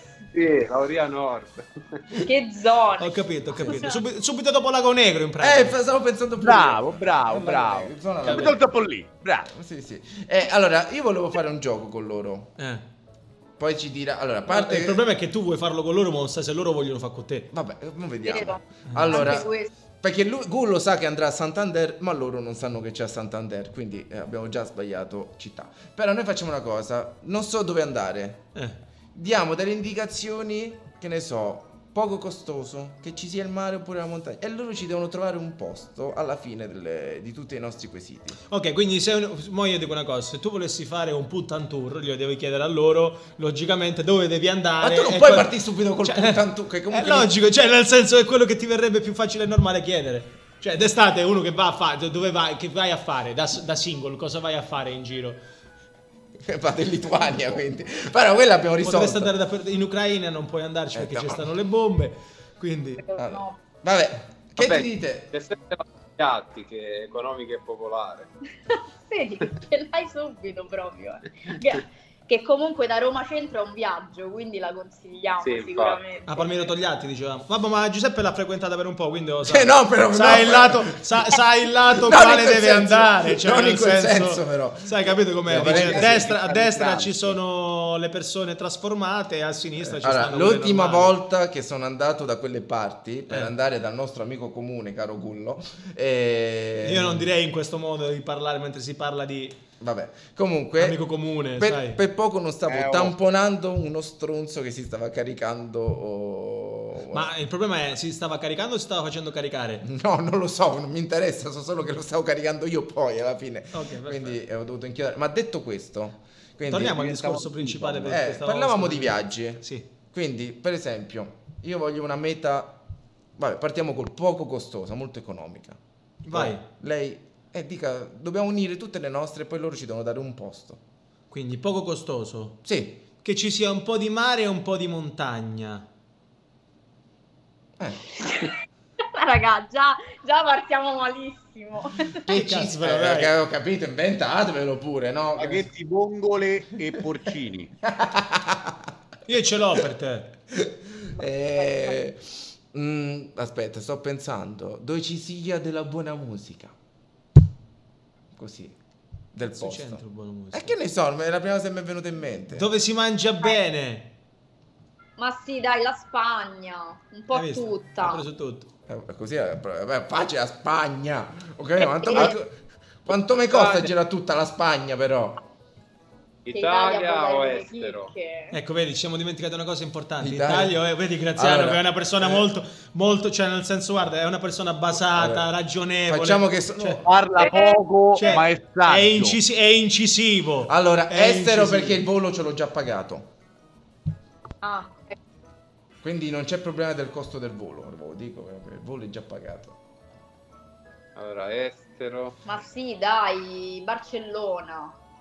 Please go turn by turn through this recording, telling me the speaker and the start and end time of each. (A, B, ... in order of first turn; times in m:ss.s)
0:00.3-0:02.0 A
0:02.2-0:04.0 B
0:03.0-0:05.8 C
0:05.4-0:08.6 D
0:06.4-0:09.5 E
0:08.2-0:08.5 C
0:09.5-0:12.5 D
0:12.6-0:12.8 C
0:13.6-0:15.0 D
0:14.5-0:17.5 C
0:17.5-0:28.5 D
0:18.2-0:19.7 B
0:18.9-0:19.2 C
0:29.1-0:38.4 D
0:38.5-0:45.5 C
0:44.8-0:47.3 D
0:46.0-0:55.4 C
0:56.4-0:59.3 D
0:58.8-1:03.0 C
1:00.9-1:01.5 D
1:03.0-1:03.6 B
1:03.2-1:05.3 D
1:04.6-1:08.3 A
1:09.1-1:16.6 B
1:15.4-1:16.0 A
1:16.3-1:31.1 C
1:19.5-1:21.0 D
1:22.0-1:26.3 D
1:25.5-1:27.4 E
1:29.8-1:37.3 D
1:36.8-1:39.6 C
1:39.8-1:47.3 D
1:40.8-1:42.0 C
1:42.7-1:43.1 E
1:47.1-1:49.8 C
1:49.8-1:57.4 D
1:53.7-1:54.4 C
1:56.7-1:59.9 C
1:57.0-1:58.2 E
1:58.0-2:02.8 D
2:03.4-2:05.8 D
2:06.2-2:06.6 C
2:06.3-2:10.8 D
2:11.3-2:12.6 C
2:12.6-2:13.0 D
2:13.2-2:15.9 C
2:17.8-2:18.0 D
2:19.1-2:22.3 B
2:22.3-2:25.7 D
2:22.3-2:23.3 C
2:25.4-2:27.7 E
2:27.9-2:28.9 D
2:29.3-2:30.3 C
2:30.5-2:36.7 D
2:31.6-2:31.9 B
2:38.3-2:38.8 D
2:39.3-2:42.7 D
2:39.4-2:40.8 C
2:42.6-2:44.1 C
2:45.2-2:48.2 B
2:47.3-2:48.7 C
2:48.9-2:55.4 D
2:52.0-2:52.3 B
2:53.5-2:53.9 A
2:56.5-2:58.1 A
2:56.5-2:58.6 B
2:58.5-3:07.0 C
3:00.2-3:00.8 D
3:01.4-3:02.5 D
3:05.1-3:05.5 D
3:06.1-3:07.1 D
3:07.0-3:09.4 E
3:07.4-3:08.4 B
3:08.2-3:12.0 C
3:10.7-3:13.3 D
3:14.6-3:15.2 B
3:16.0-3:19.8 D
3:21.2-3:22.4 A
3:22.4-3:25.0 B